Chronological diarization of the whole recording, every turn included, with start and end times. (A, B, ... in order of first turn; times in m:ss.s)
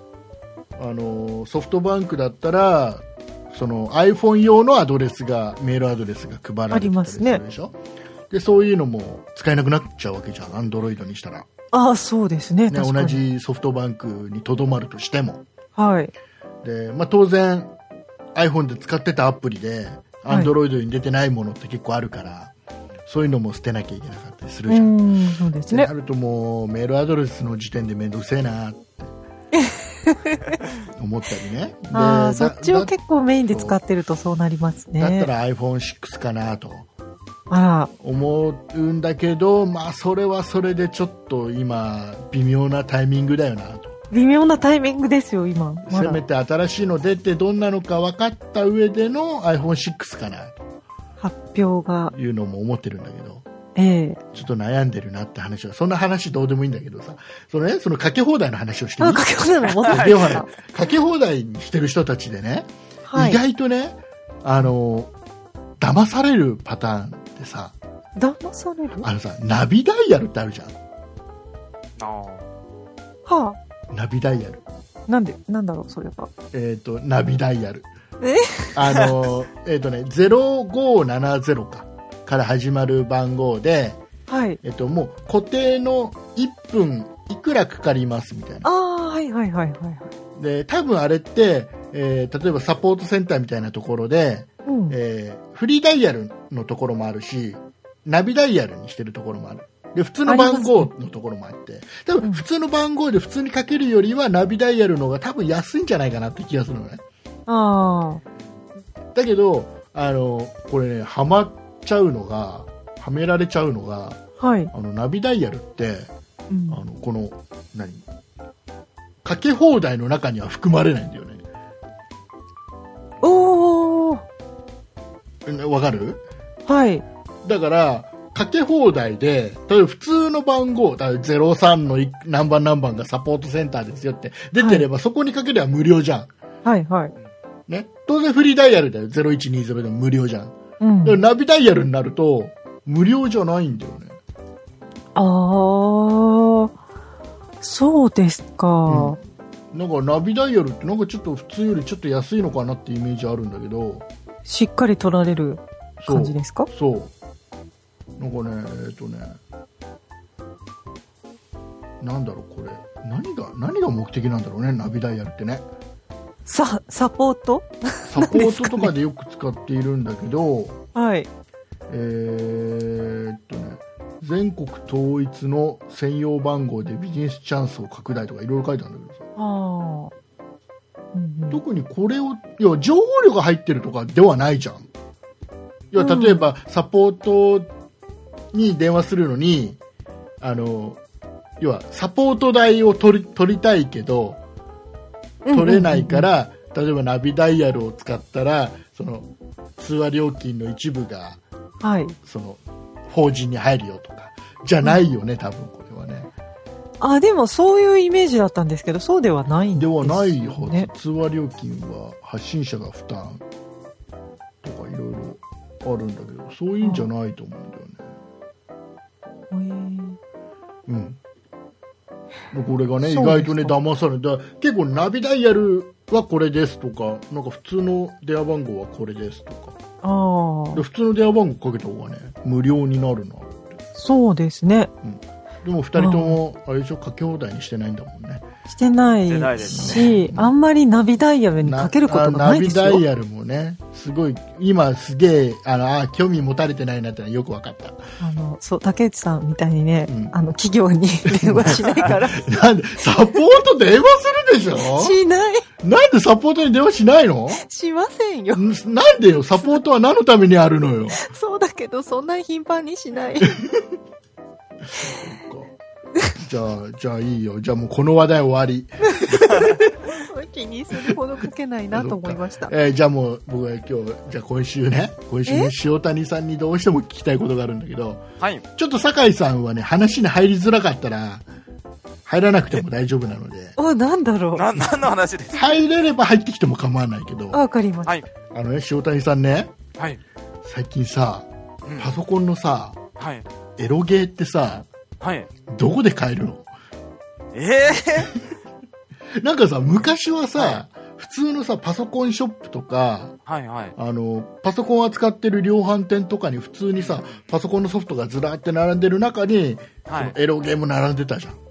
0:00.8-0:07.8 A
0:06.7-0:07.4 B
0:08.3-0:11.5 A
0:11.7-0:13.2 B
0:12.7-0:15.4 A
0:15.8-0:16.1 B
0:16.6-0:17.7 A
0:18.4-0:22.5 A
0:20.3-0:20.5 B
0:23.1-0:25.0 A
0:24.7-0:25.9 B
0:25.7-0:29.1 A
0:29.6-0:30.5 B
0:31.0-0:33.0 A
0:31.9-0:35.3 B
0:33.5-0:33.8 A
0:35.0-0:36.9 A
0:37.5-0:37.9 B
0:38.0-0:44.0 A
0:44.1-0:46.2 B
0:45.9-0:50.6 A
0:51.2-0:52.1 B
0:52.1-0:53.4 A
0:53.8-0:54.2 B
0:54.3-0:59.3 A
0:59.0-1:00.5 B
0:59.8-1:05.1 A
0:59.8-1:00.4 C
1:03.1-1:03.4 B
1:05.8-1:07.8 A
1:08.2-1:09.1 B
1:09.0-1:10.8 A
1:12.0-1:12.5 C
1:13.3-1:13.6 B
1:13.9-1:14.6 A
1:15.1-1:16.3 B
1:16.5-1:17.9 A
1:18.2-1:18.8 B
1:18.8-1:24.0 A
1:24.3-1:24.6 B
1:24.6-1:28.7 A
1:28.6-1:30.1 B
1:30.4-1:47.0 A
1:34.7-1:35.0 B
1:40.3-1:40.9 B
1:47.5-1:48.2 B
1:49.2-1:54.2 A
1:54.4-1:54.7 B
1:54.7-1:56.1 A
1:56.5-1:56.8 B
1:56.7-1:58.0 A
1:59.2-2:01.4 A
2:03.2-2:04.2 B
2:05.5-2:06.2 A
2:06.7-2:07.0 B
2:07.4-2:16.3 A
2:14.6-2:14.8 B
2:16.6-2:17.1 B
2:17.7-2:24.2 A
2:20.8-2:21.2 B
2:25.2-2:26.7 B
2:27.6-2:29.2 B
2:28.9-2:29.2 A
2:29.7-2:34.1 A
2:34.5-2:36.7 B
2:36.0-2:37.1 A
2:38.2-2:39.4 A
2:42.0-2:45.7 A
2:46.5-2:48.9 B
2:48.1-2:50.8 A
2:51.0-2:51.3 B
2:51.9-2:59.2 A
2:59.4-3:00.1 B
3:01.1-3:01.6 B
3:01.5-3:04.9 A
3:05.9-3:07.7 A
3:06.0-3:06.4 B
3:08.5-3:09.8 A
3:10.4-3:11.0 A
3:11.6-3:14.4 A
3:15.4-3:16.3 B
3:15.5-3:21.4 A
3:21.8-3:22.2 B
3:22.3-3:26.3 A
3:27.0-3:30.9 B
3:29.8-3:33.4 A
3:34.6-3:38.1 A
3:36.8-3:37.1 B
3:39.5-3:40.2 B
3:40.9-3:41.2 A
3:42.5-3:49.8 A
3:43.1-3:43.8 B
3:50.0-3:50.8 B
3:50.7-3:53.7 A
3:54.0-3:54.9 B
3:55.0-3:58.5 A
3:56.0-3:56.4 B
3:58.7-4:03.0 B
3:59.3-4:00.1 C
3:59.6-4:00.5 A
4:01.6-4:08.1 A
4:08.2-4:12.7 B
4:10.1-4:10.4 A
4:11.3-4:15.2 A
4:14.8-4:15.6 B
4:15.8-4:17.6 A
4:17.6-4:18.7 B
4:18.6-4:21.2 A
4:21.1-4:23.5 B
4:23.5-4:23.8 A
4:25.0-4:25.7 A
4:26.4-4:29.8 A
4:30.0-4:32.7 B
4:31.9-4:38.2 A
4:38.8-4:41.4 A
4:42.2-4:43.8 A
4:43.8-4:44.7 B
4:44.5-4:45.8 C
4:45.5-4:47.6 A
4:47.5-4:48.1 B
4:48.5-4:49.7 A
4:50.6-4:53.0 A
4:51.9-4:52.1 C
4:53.2-4:53.4 C
4:53.8-4:54.9 A
4:55.2-4:55.5 C
4:55.7-4:56.7 A
4:57.5-4:58.4 C
4:59.4-5:03.4 A
5:00.6-5:00.8 C
5:03.5-5:04.0 C
5:04.0-5:11.6 A
5:07.0-5:07.5 C
5:10.1-5:10.4 C